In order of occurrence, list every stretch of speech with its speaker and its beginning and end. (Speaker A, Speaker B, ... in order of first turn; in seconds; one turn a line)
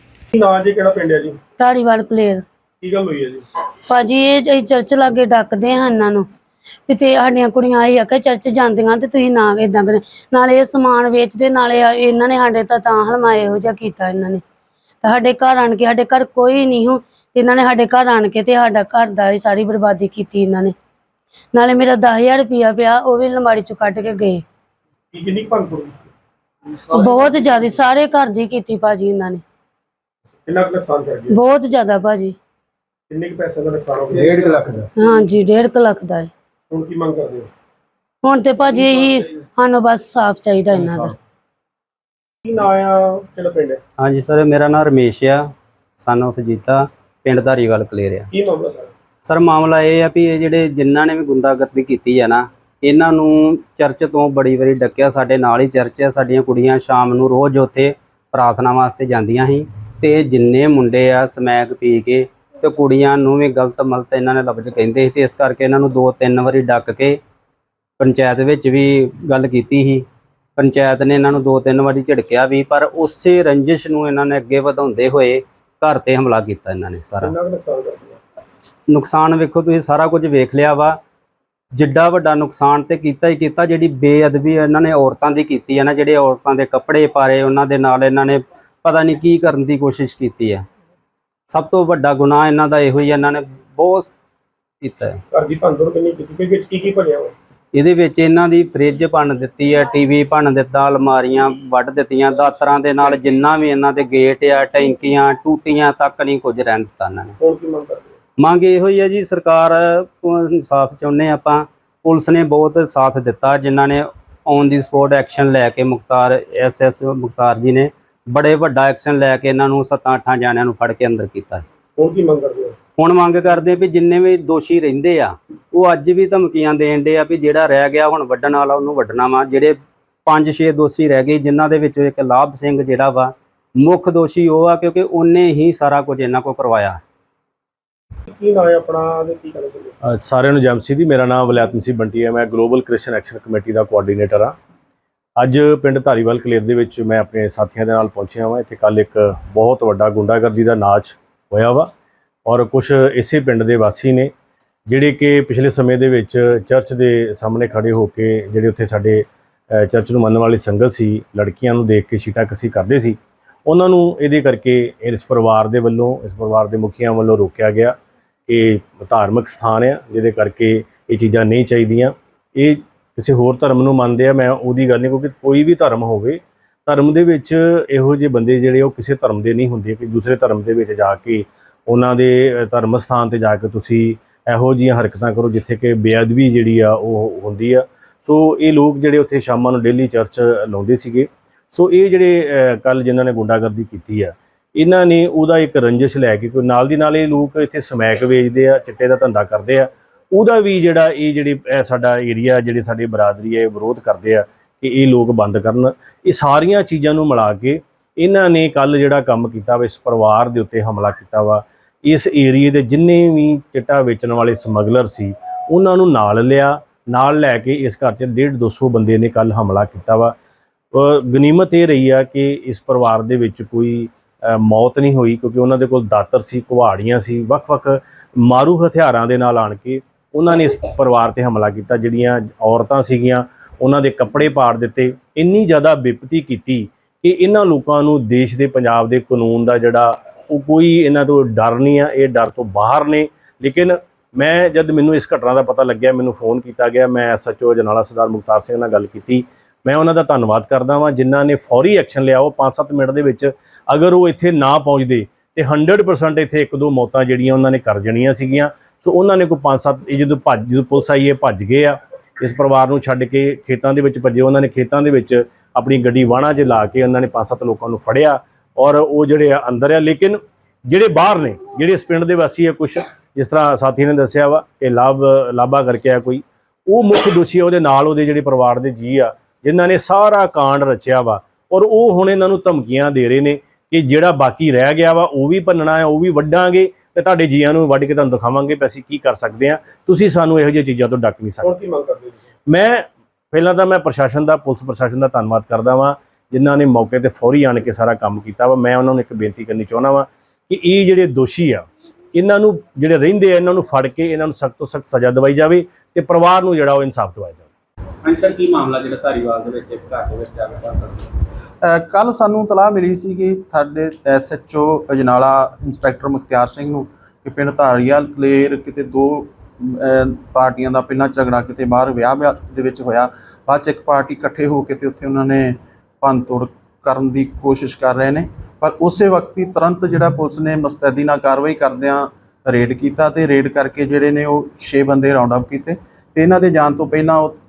Speaker A: 0.3-1.4
Speaker B: 1.6-2.4
Speaker A: 2.8-3.5
Speaker B: 3.9-6.2
Speaker B: 6.9-14.4
Speaker B: 15.0-20.7
Speaker B: 21.5-24.4
Speaker A: 25.1-26.0
Speaker B: 26.9-29.4
Speaker A: 30.5-31.4
Speaker B: 31.3-32.3
Speaker A: 33.1-34.6
Speaker C: 34.2-34.9
Speaker B: 35.0-36.3
Speaker A: 36.7-37.5
Speaker B: 38.2-41.1
Speaker A: 42.4-43.8
Speaker D: 44.0-45.5
Speaker D: 46.0-48.3
Speaker A: 48.3-48.9
Speaker D: 49.2-67.2
Speaker D: 68.0-70.0
Speaker D: 70.6-77.3
Speaker A: 77.2-78.2
Speaker D: 78.9-81.0
Speaker D: 81.7-90.6
Speaker D: 91.5-94.1
Speaker D: 94.8-95.2
Speaker A: 95.3-97.3
Speaker D: 97.7-107.3
Speaker A: 107.4-108.1
Speaker D: 108.4-121.6
Speaker A: 122.0-122.7
Speaker D: 123.0-137.0
Speaker A: 138.3-139.9
Speaker E: 140.1-144.5
Speaker E: 145.4-151.9
Speaker E: 152.4-154.3
Speaker E: 154.9-159.2
Speaker E: 159.8-167.9
Speaker E: 168.5-220.3
Speaker E: 220.9-291.7
Speaker A: 291.6-292.4
Speaker E: 292.7-307.6
Speaker C: 308.2-311.3
Speaker F: 311.8-337.6